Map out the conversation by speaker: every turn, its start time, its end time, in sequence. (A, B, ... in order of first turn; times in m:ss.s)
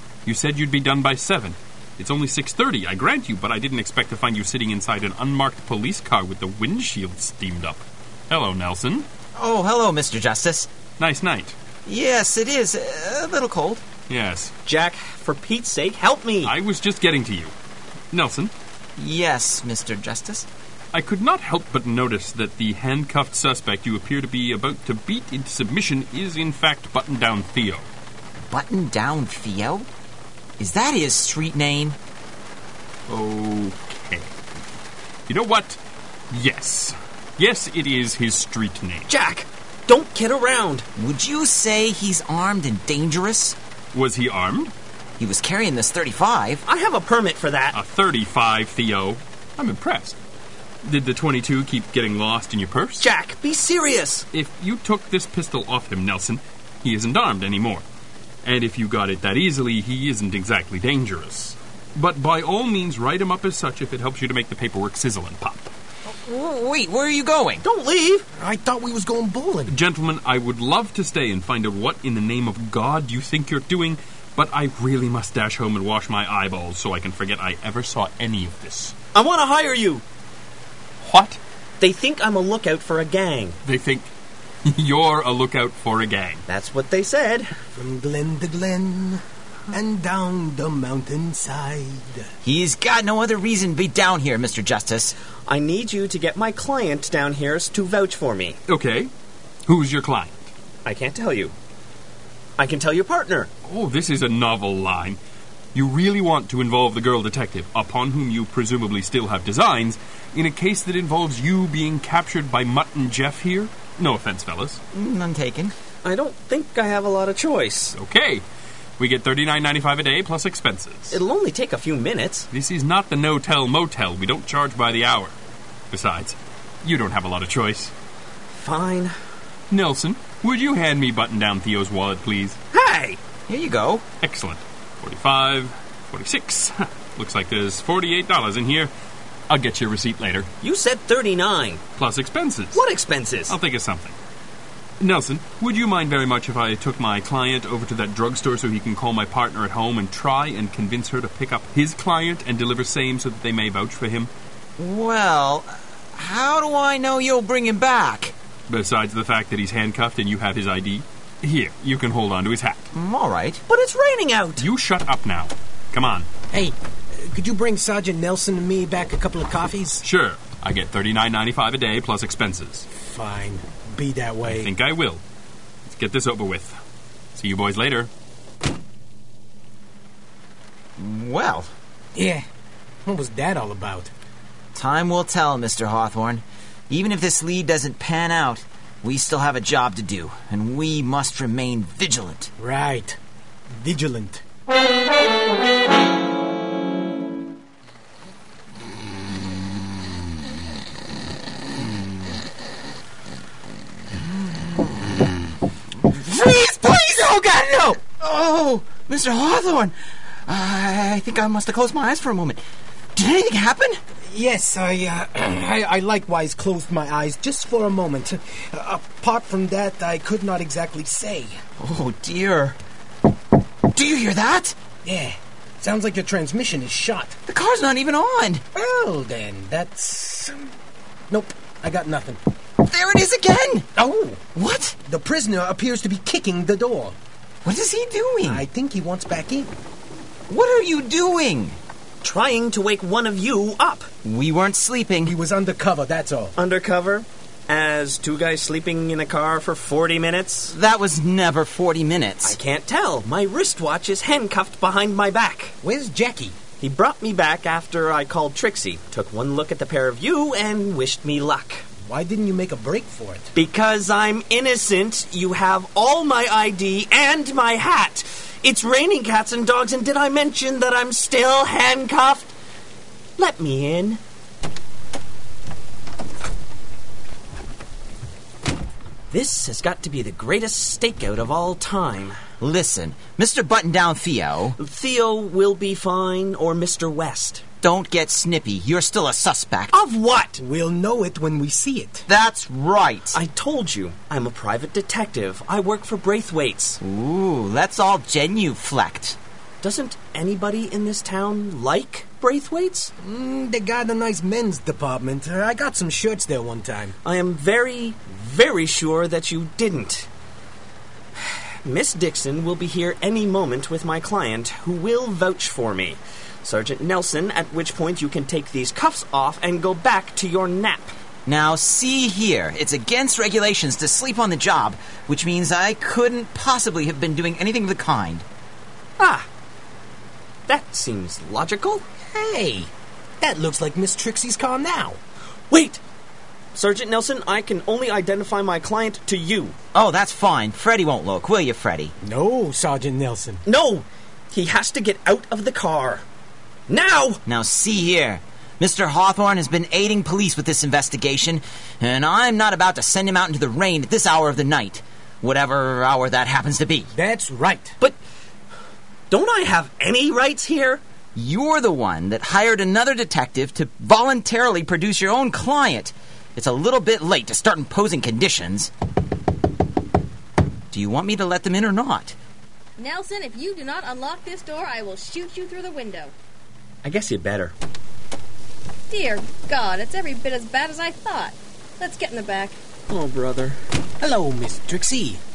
0:00.2-0:09.1 A
0:09.4-0:10.7 B
0:11.0-0:11.6 A
0:11.9-0:13.8 B
0:14.1-0:14.5 A
0:14.7-0:16.5 C
0:16.4-0:17.5 A
0:18.1-0:18.5 A
0:19.0-0:20.5 B
0:20.9-0:27.9 A
0:28.5-0:29.9 B
0:30.6-0:32.0 B
0:33.1-0:34.3 A
0:35.3-0:35.8 A
0:36.3-0:39.1 A
0:39.1-0:40.9 C
0:41.0-0:43.6 B
0:43.9-0:44.7 A
0:45.2-0:46.6 B
0:46.7-0:47.8 C
0:47.7-0:50.2 A
0:50.8-0:53.1 A
0:53.0-0:54.3 C
0:54.3-0:57.8 A
0:58.4-1:05.7 A
1:06.1-1:07.6 B
1:07.6-1:08.3 C
1:08.3-1:09.8 D
1:09.7-1:19.0 A
1:19.2-1:20.0 C
1:21.0-1:21.4 A
1:21.8-1:23.6 C
1:23.6-1:24.1 A
1:24.7-1:26.4 A
1:26.5-1:27.6 C
1:27.8-1:32.3 D
1:32.4-1:35.2 B
1:35.5-1:38.6 C
1:38.7-1:39.1 A
1:39.7-1:40.5 A
1:40.8-1:41.5 C
1:42.6-1:43.5 C
1:43.6-1:45.2 A
1:45.7-1:54.8 A
1:54.9-1:55.7 B
1:56.0-1:58.0 C
1:58.0-1:58.4 A
1:59.0-2:01.2 A
2:01.1-2:02.5 C
2:02.5-2:05.4 A
2:05.9-2:07.9 A
2:08.5-2:09.2 C
2:09.7-2:12.6 A
2:12.7-2:13.2 C
2:13.5-2:14.0 B
2:14.2-2:18.9 A
2:19.5-2:20.5 A
2:20.6-2:21.8 C
2:22.0-2:22.8 A
2:22.7-2:23.5 C
2:23.5-2:24.2 A
2:25.0-2:34.3 A
2:34.8-2:38.4 B
2:38.7-2:42.9 A
2:42.9-2:43.6 B
2:43.7-2:44.7 C
2:44.6-2:46.3 A
2:46.5-2:50.0 D
2:50.0-2:52.9 A
2:53.0-2:54.7 D
2:54.4-2:55.2 A
2:55.8-2:56.8 A
2:57.4-2:58.1 A
3:01.0-3:01.7 B
3:02.2-3:02.5 D
3:03.0-3:04.1 D
3:04.7-3:12.5 B
3:12.6-3:13.2 D
3:13.8-3:14.4 D
3:24.4-3:25.1 B
3:26.1-3:30.0 B
3:30.5-3:32.6 B
3:33.2-3:34.0 B
3:34.2-3:41.6 D
3:41.8-3:42.8 B
3:43.9-3:44.8 B
3:45.0-3:47.4 D
3:47.5-3:48.6 B
3:48.7-3:50.7 D
3:51.3-3:52.4 D
3:52.8-3:53.9 B
3:54.0-3:54.4 D
3:54.5-3:55.0 B
3:55.1-3:57.2 D
3:57.6-3:58.6 B
3:58.4-3:59.8 D
4:00.5-4:01.8 B
4:02.2-4:04.1 C
4:04.2-4:05.4 B
4:05.2-4:06.6 D
4:06.6-4:10.7 C
4:10.7-4:12.6 B
4:12.4-4:15.8 C
4:15.8-4:16.6 D
4:16.8-4:21.9 C
4:22.0-4:23.5 D
4:23.6-4:32.5 C
4:33.4-4:34.2 C
4:39.3-4:42.4 C
4:42.6-4:44.8 B
4:44.8-4:47.6 C
4:47.8-4:49.9 B
4:49.9-4:50.6 C
4:50.6-4:52.3 D
4:52.3-4:53.4 B
4:53.3-4:57.0 C
4:57.0-4:59.4 B
4:59.8-5:03.1 C
5:03.2-5:07.2 D
5:07.2-5:10.3 C
5:11.4-5:21.1 C
5:21.5-5:28.4 B
5:29.2-5:29.5 C
5:30.7-5:32.0 C
5:32.3-5:35.2 D
5:35.7-5:36.0 C
5:36.7-5:39.8 C
5:39.9-5:42.1 B
5:42.2-5:43.6 D
5:43.7-5:46.2 C
5:46.9-5:47.4 C
5:47.5-5:57.1 B
5:57.1-5:58.0 D
5:59.3-6:01.0 C
6:01.4-6:08.9 B
6:10.9-6:12.4 B
6:13.0-6:16.3 E
6:17.0-6:17.7 C
6:19.1-6:22.8 E
6:23.1-6:23.8 C
6:24.2-6:25.4 D